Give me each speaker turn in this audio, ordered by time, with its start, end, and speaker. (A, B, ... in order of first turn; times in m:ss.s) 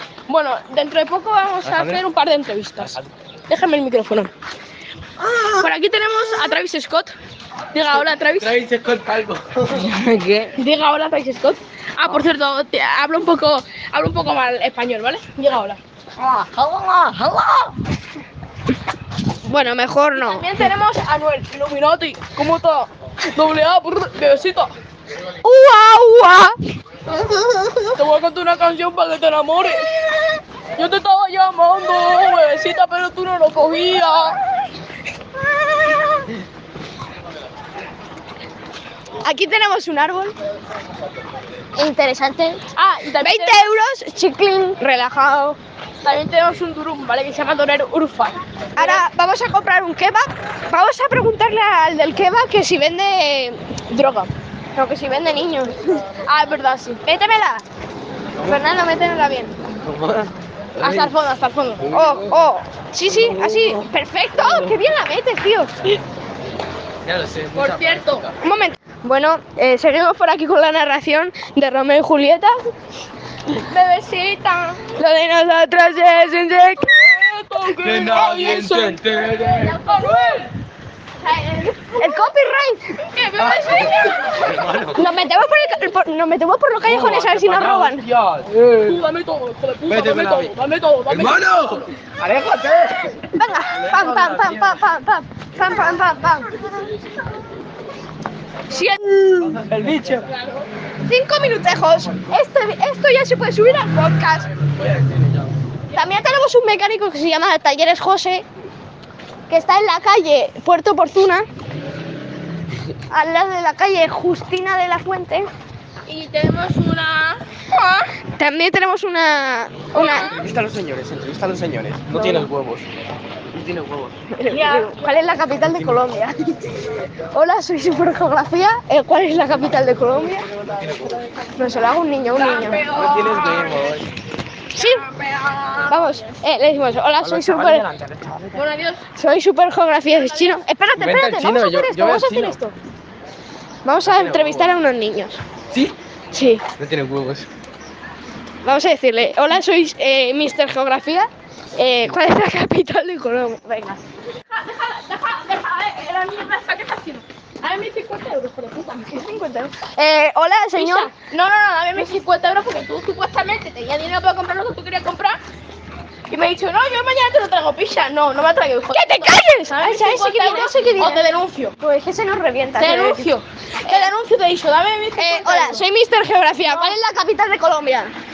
0:00.3-0:04.3 A
0:01.6-0:02.0 B
0:02.8-0:03.1 B
0:05.5-0:07.1 A
0:07.7-0:08.5 A
0:08.2-0:10.0 B
0:10.0-0:10.5 C
0:10.5-0:15.8 A
0:16.2-0:17.6 B
0:19.4-0:20.6 C
0:20.1-0:24.7 A
0:25.4-0:26.6 C
0:27.2-0:27.9 C
0:27.9-0:30.0 A
0:30.8-0:34.4 A
0:39.2-0:40.3 C
0:41.8-0:42.6 C
0:42.7-0:43.7 A
0:43.2-0:45.6 C
0:46.0-0:49.0 A
0:48.8-0:53.7 C
0:53.9-0:54.3 A
0:54.7-0:56.0 C
0:56.2-0:57.0 A
0:57.0-0:57.6 C
0:58.4-0:59.6 C
0:59.8-1:01.1 B
1:00.8-1:01.9 A
1:01.8-1:02.4 B
1:01.9-1:05.9 C
1:03.1-1:04.8 B
1:07.0-1:08.3 B
1:07.5-1:08.3 A
1:08.4-1:12.7 C
1:13.5-1:14.8 A
1:14.9-1:17.2 C
1:16.8-1:20.5 A
1:17.7-1:20.4 B
1:21.2-1:22.2 A
1:22.0-1:23.0 C
1:23.0-1:24.8 A
1:23.4-1:25.0 B
1:24.9-1:28.0 C
1:26.8-1:29.0 B
1:28.8-1:31.9 A
1:29.9-1:30.5 B
1:31.1-1:34.8 B
1:33.3-1:36.8 C
1:36.4-1:37.4 B
1:38.7-1:39.6 C
1:39.4-1:40.3 B
1:40.3-1:40.7 A
1:41.0-1:44.5 C
1:44.5-1:45.6 B
1:45.9-1:48.4 C
1:49.5-1:51.5 C
1:53.1-1:55.5 C
1:56.0-1:58.1 A
1:58.4-2:00.4 C
1:59.9-2:00.4 A
2:00.0-2:02.9 B
2:02.1-2:02.5 C
2:03.5-2:04.2 B
2:04.3-2:10.5 C
2:04.4-2:04.9 A
2:10.5-2:11.3 B
2:11.5-2:12.8 C
2:12.3-2:13.9 A
2:12.9-2:14.1 B
2:14.7-2:15.0 C
2:14.8-2:16.2 A
2:15.9-2:17.9 C
2:17.2-2:18.6 B
2:18.5-2:19.0 A
2:19.1-2:22.7 C
2:20.1-2:20.6 A
2:20.9-2:22.6 B
2:23.8-2:25.4 C
2:24.0-2:24.7 B
2:26.3-2:26.6 C
2:26.8-2:27.5 B
2:28.6-2:34.0 C
2:34.5-2:39.2 A
2:39.1-2:41.1 C
2:40.8-2:45.4 A
2:46.3-2:51.8 A
2:48.9-2:51.2 C
2:51.8-2:53.3 C
2:52.8-2:55.8 A
2:53.8-2:54.1 C
2:55.2-2:58.1 C
2:56.7-2:56.9 A